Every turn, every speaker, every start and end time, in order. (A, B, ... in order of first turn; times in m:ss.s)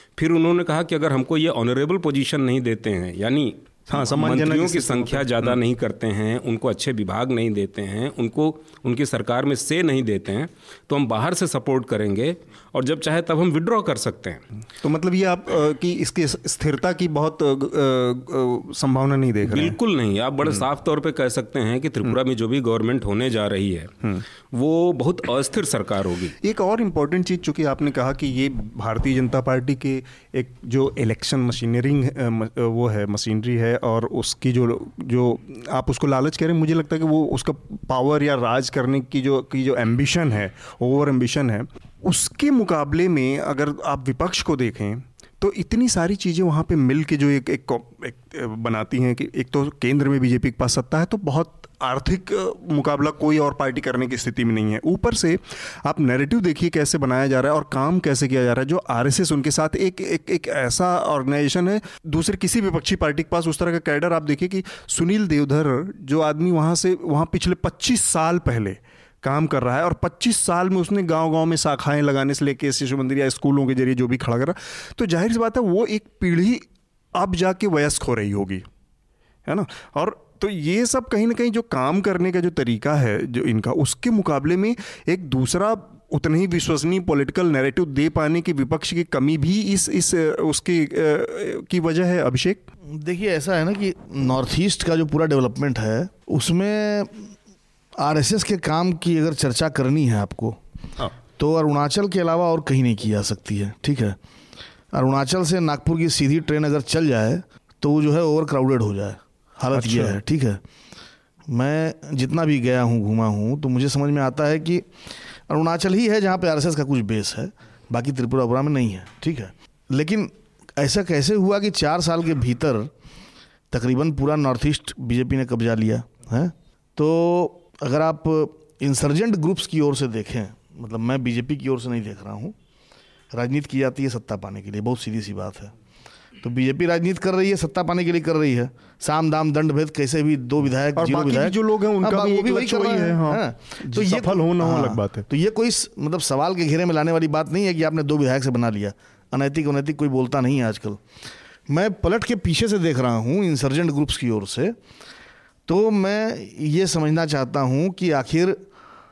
0:00.2-0:14.4 A
0:03.9-0:05.6 B
0:14.8-0:19.8 B
0:19.4-0:26.4 A
0:26.4-1:16.6 B
1:17.1-1:18.6 B
1:19.4-1:32.6 B
1:32.9-1:37.3 C
1:38.0-1:40.6 C
1:41.4-1:44.2 C
1:44.9-1:50.6 C
1:49.7-1:50.2 B
1:51.5-2:02.9 C
2:03.7-2:12.5 C
2:13.3-2:15.7 C
2:16.4-2:31.0 C
2:21.0-2:25.2 B
2:31.7-2:34.8 C
2:35.7-2:38.6 C